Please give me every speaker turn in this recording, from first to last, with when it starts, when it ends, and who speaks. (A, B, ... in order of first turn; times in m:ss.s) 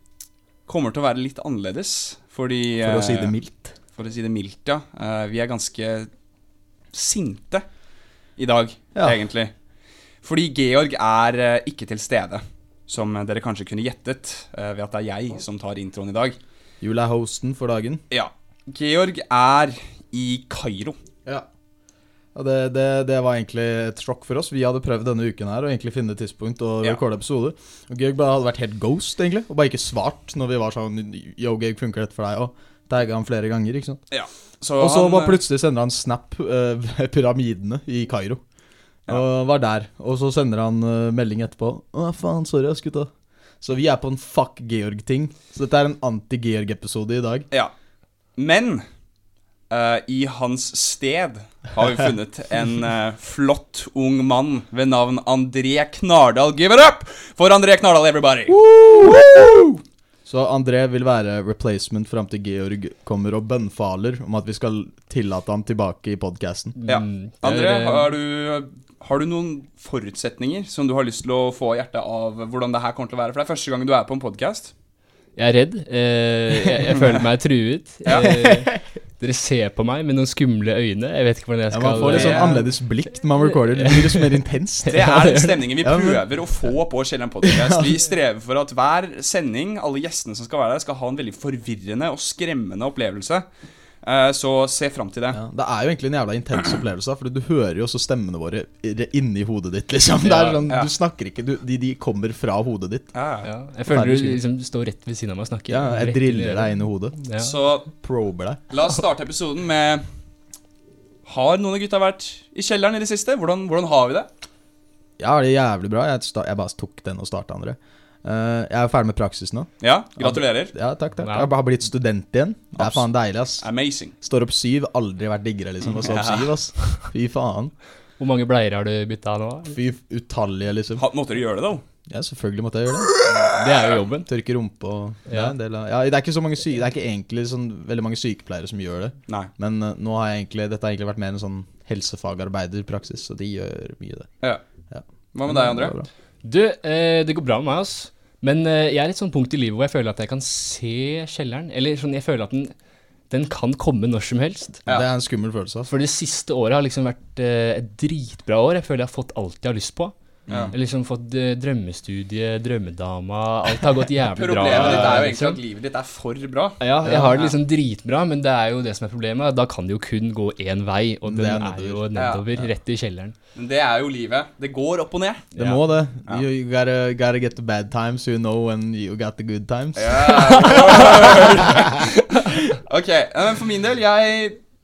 0:00.7-0:03.3 A
0:02.8-0:03.7 B
0:04.0-0:06.1 A
0:06.9-0:07.6 A
0:08.4-0:09.5 A
0:10.2-0:16.4 A
0:16.8-0:18.0 B
0:18.1-0:21.0 A
0:22.3-0:34.0 B
0:34.1-0:35.4 A
0:34.8-0:38.4 B
0:39.1-0:43.1 B
0:43.6-0:47.5 B
0:48.4-0:48.8 A
0:49.7-0:58.6 A
0:58.5-1:06.8 B
1:06.8-1:08.1 C
1:06.8-1:14.7 A
1:15.4-1:22.6 C
1:18.1-1:18.8 B
1:21.7-1:25.0 B
1:22.0-1:22.6 A
1:23.4-1:25.7 C
1:24.9-1:33.4 A
1:25.8-1:26.2 B
1:27.4-1:27.9 B
1:34.0-1:35.4 A
1:35.3-1:43.1 B
1:40.2-1:40.6 C
1:43.1-1:43.5 A
1:43.4-1:47.5 C
1:43.9-1:44.4 B
1:45.7-1:47.2 B
1:47.4-1:47.9 A
1:48.0-1:48.6 B
1:48.7-1:50.0 A
1:51.2-1:54.3 A
1:55.2-2:03.6 B
1:59.8-2:00.7 A
2:01.2-2:01.5 C
2:02.8-2:03.0 A
2:03.6-2:04.1 A
2:04.2-2:07.7 B
2:05.9-2:06.5 A
2:08.2-2:09.8 C
2:09.7-2:11.0 B
2:11.0-2:11.8 A
2:12.1-2:13.1 B
2:13.2-2:14.0 A
2:13.4-2:14.3 C
2:14.3-2:24.3 B
2:15.3-2:15.5 C
2:24.9-2:26.1 B
2:25.3-2:26.0 A
2:26.4-2:32.7 C
2:33.3-2:34.8 C
2:34.9-2:35.9 B
2:35.9-2:40.1 C
2:40.5-2:40.7 B
2:40.5-2:40.7 A
2:40.7-2:45.6 C
2:44.3-2:47.6 A
2:44.7-2:45.4 B
2:46.8-2:53.3 C
2:47.0-2:47.4 B
2:51.2-2:52.0 B
2:52.1-2:52.4 A
2:53.5-2:55.5 A
2:55.6-2:55.8 C
2:55.6-3:01.4 B
3:00.0-3:02.1 A
3:00.6-3:00.9 C
3:02.8-3:04.6 A